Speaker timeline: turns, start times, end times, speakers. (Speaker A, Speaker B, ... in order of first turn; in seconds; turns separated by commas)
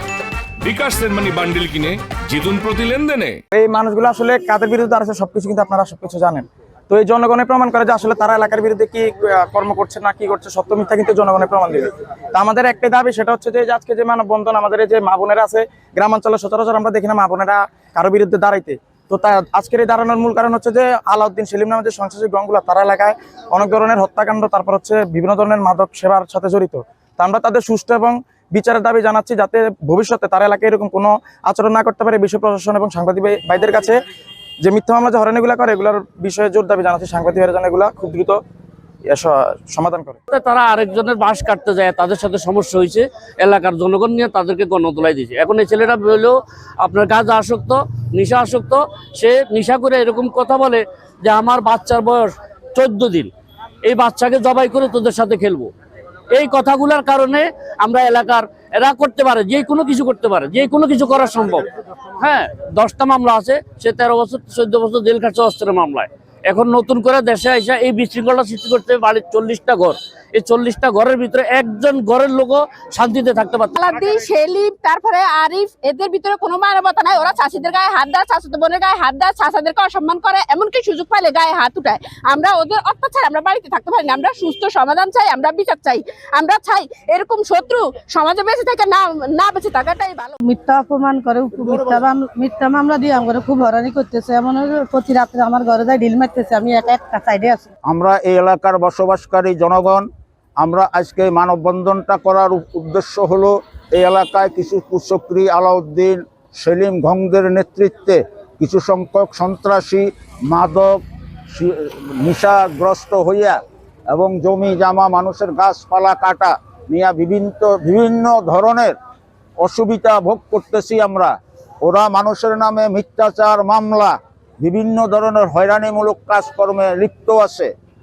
Speaker A: 0.6-3.3, Speaker B: 3.5-34.0, Speaker B: 34.6-38.4, Speaker B: 39.1-40.2, Speaker C: 40.3-53.3, Speaker C: 53.8-55.7, Speaker C: 56.3-61.7, Speaker C: 62.2-73.7, Speaker D: 73.7-90.4, Speaker E: 90.4-97.7, Speaker F: 97.9-100.0, Speaker F: 100.6-111.0, Speaker F: 111.5-113.6, Speaker F: 114.1-119.0, Speaker F: 119.6-127.7